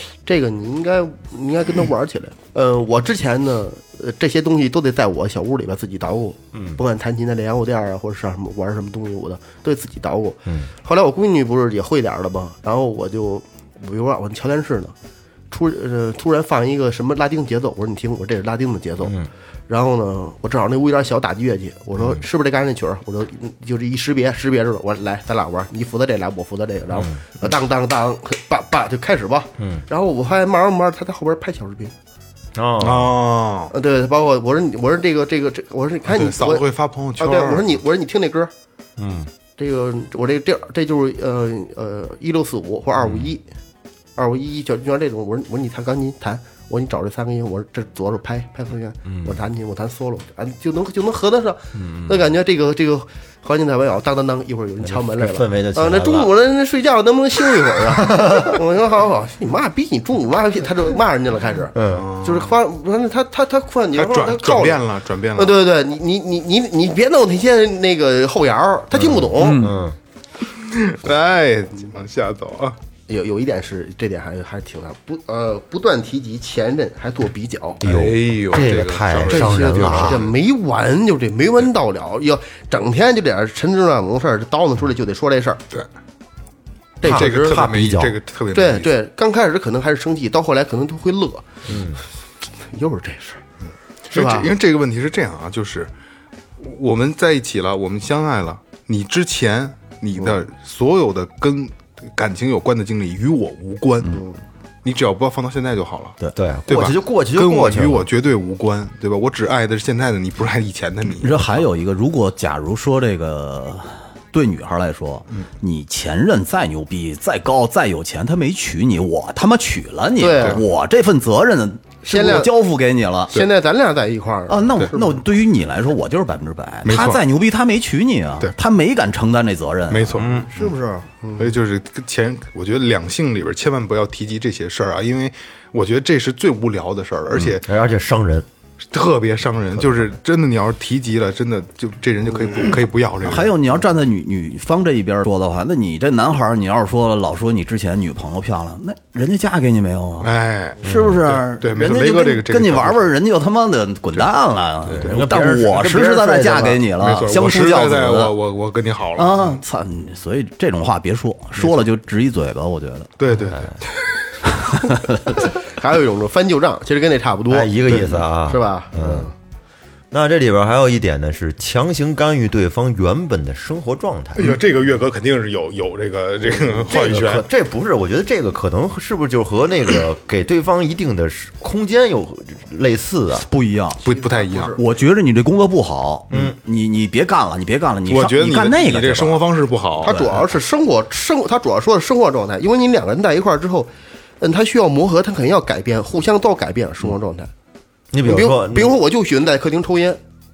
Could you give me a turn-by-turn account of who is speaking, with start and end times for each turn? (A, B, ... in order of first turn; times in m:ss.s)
0:00.3-0:14.9 A
0:06.5-0:06.8 B
0:15.5-0:19.2 A
0:19.0-0:19.3 B
0:19.7-0:31.9 A
0:26.9-0:27.2 B
0:29.6-0:29.8 B
0:32.6-0:33.2 B
0:32.8-0:33.7 C
0:33.7-0:38.5 A
0:36.1-0:37.7 C
0:39.0-0:39.3 B
0:39.6-0:43.4 A
0:44.2-1:04.8 A
0:49.1-0:49.4 B
0:51.7-0:52.2 B
0:54.8-0:56.3 B
0:57.9-0:58.6 B
1:01.8-1:02.1 B
1:01.9-1:02.5 C
1:03.9-1:05.6 C
1:05.4-1:09.7 A
1:09.4-1:09.8 D
1:09.4-1:10.0 B
1:10.5-1:12.8 C
1:13.1-1:17.8 A
1:17.8-1:20.2 B
1:17.8-1:20.3 C
1:19.3-1:25.6 A
1:27.0-1:27.6 A
1:27.0-1:28.2 B
1:27.0-1:28.9 C
1:28.5-1:31.6 A
1:31.7-1:32.0 B
1:32.6-1:33.4 A
1:34.1-1:35.9 C
1:34.1-1:34.5 A
1:36.6-1:44.2 C
1:44.1-1:44.4 A
1:44.8-1:46.2 C
1:46.4-1:48.1 B
1:46.7-1:51.6 C
1:51.2-2:03.4 D
2:00.2-2:00.6 A
2:02.1-2:02.5 A
2:03.3-2:05.2 A
2:04.5-2:11.1 D
2:06.8-2:07.2 C
2:09.9-2:10.7 C
2:10.2-2:10.5 B
2:11.4-2:17.7 C
2:17.4-2:18.5 B
2:18.9-2:23.6 C
2:23.2-2:38.4 D
2:30.2-2:33.1 C
2:30.8-2:31.2 B
2:34.9-2:35.2 C
2:35.0-2:36.8 B
2:37.0-2:39.6 C
2:39.2-2:43.1 D
2:43.2-2:43.9 C
2:45.6-2:47.9 A
2:47.5-2:49.3 B
2:48.4-2:49.3 A
2:50.1-2:54.6 B
2:54.4-2:57.5 C
2:56.9-3:03.5 B
3:03.4-3:04.0 D
3:04.0-3:04.8 C
3:04.1-3:04.8 A
3:04.8-3:09.5 D
3:08.1-3:10.2 C
3:10.0-3:17.5 A
3:10.0-3:10.4 D
3:18.1-3:19.0 B
3:18.2-3:20.2 A